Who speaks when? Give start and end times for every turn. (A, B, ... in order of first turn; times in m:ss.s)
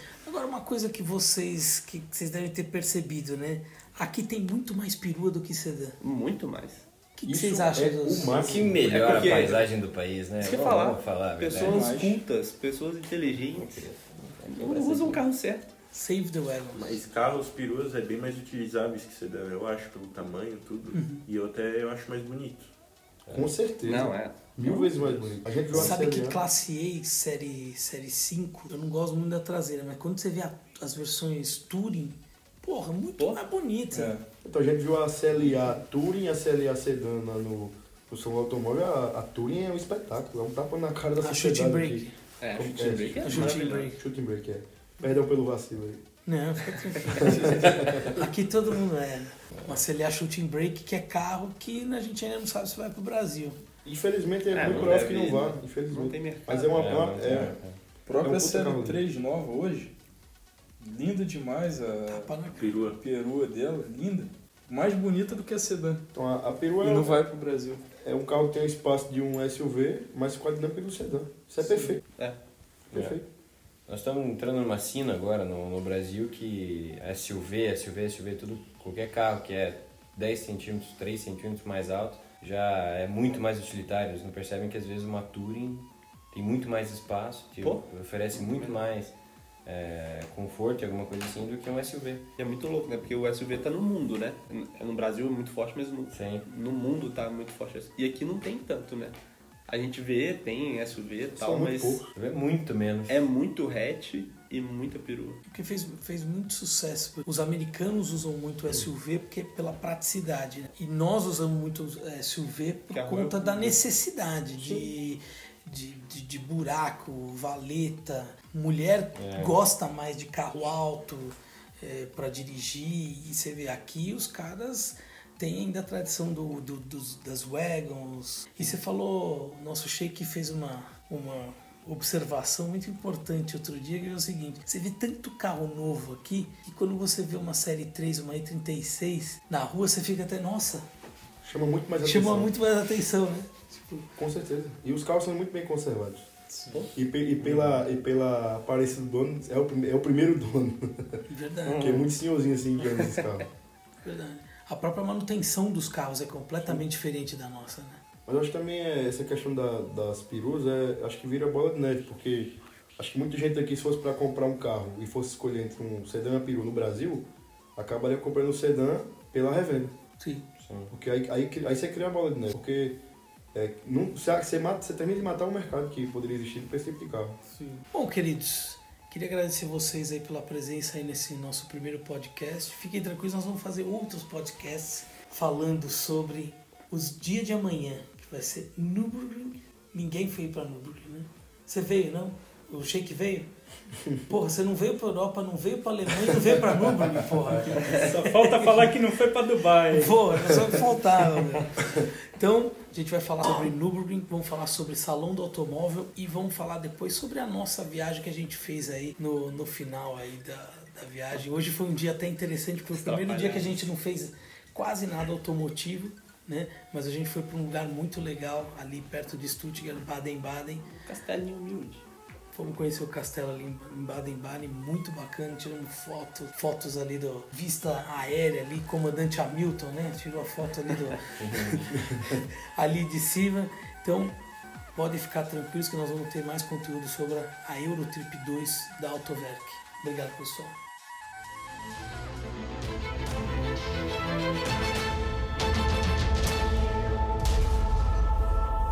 0:00.2-0:06.0 A
0:06.0-0:06.8 B
0:07.2-0:08.5 A
0:07.2-0:09.1 C
0:08.3-0:11.9 D
0:08.5-0:09.7 B
0:10.4-0:13.9 B
0:11.5-0:12.2 E
0:13.5-0:15.2 D
0:14.4-0:15.7 B
0:15.9-0:17.0 A
0:16.7-0:22.7 F
0:20.9-0:21.2 A
0:23.3-0:23.5 D
0:23.3-0:26.4 C
0:23.8-0:25.2 B
0:25.7-0:34.1 A
0:33.9-0:34.2 E
0:34.4-0:46.0 C
0:41.2-0:42.1 A
0:42.4-0:43.9 B
0:43.2-0:44.0 A
0:46.2-0:53.6 A
0:47.2-0:48.1 C
0:47.3-0:47.8 E
0:49.5-0:49.8 D
0:53.8-0:57.6 C
0:54.5-0:56.9 B
0:54.6-0:55.0 D
0:56.7-0:57.8 D
0:58.0-0:59.9 E
0:58.2-0:59.0 C
1:00.8-1:02.3 E
1:02.1-1:02.8 A
1:02.5-1:03.0 F
1:02.9-1:06.0 E
1:06.1-1:07.2 C
1:06.8-1:07.8 E
1:08.0-1:12.0 C
1:12.9-1:13.2 D
1:12.9-1:13.2 C
1:13.9-1:32.2 D
1:27.6-1:28.8 B
1:32.4-1:42.1 B
1:36.1-1:36.4 D
1:41.4-1:42.0 C
1:42.1-1:43.2 D
1:43.1-1:45.4 B
1:45.5-2:20.8 A
1:52.9-1:53.8 B
1:59.1-1:59.6 D
2:21.4-2:22.5 C
2:22.0-2:24.0 A
2:24.2-2:26.3 C
2:26.5-2:26.8 E
2:26.9-2:31.2 C
2:31.3-2:31.8 A
2:31.7-2:32.0 B
2:31.7-2:33.5 C
2:32.8-2:33.4 B
2:34.0-2:38.0 A
2:38.2-2:49.9 C
2:50.2-2:50.4 A
2:50.6-2:50.9 D
2:50.9-2:53.0 C
2:53.5-2:57.4 C
2:57.5-2:57.8 E
2:57.9-3:13.5 A
3:14.3-3:18.1 A
3:17.8-3:20.2 G
3:19.9-3:40.8 A
3:32.9-3:33.8 B
3:41.0-3:42.0 B
3:42.5-3:54.3 A
3:51.4-3:51.9 D
3:54.9-4:00.7 A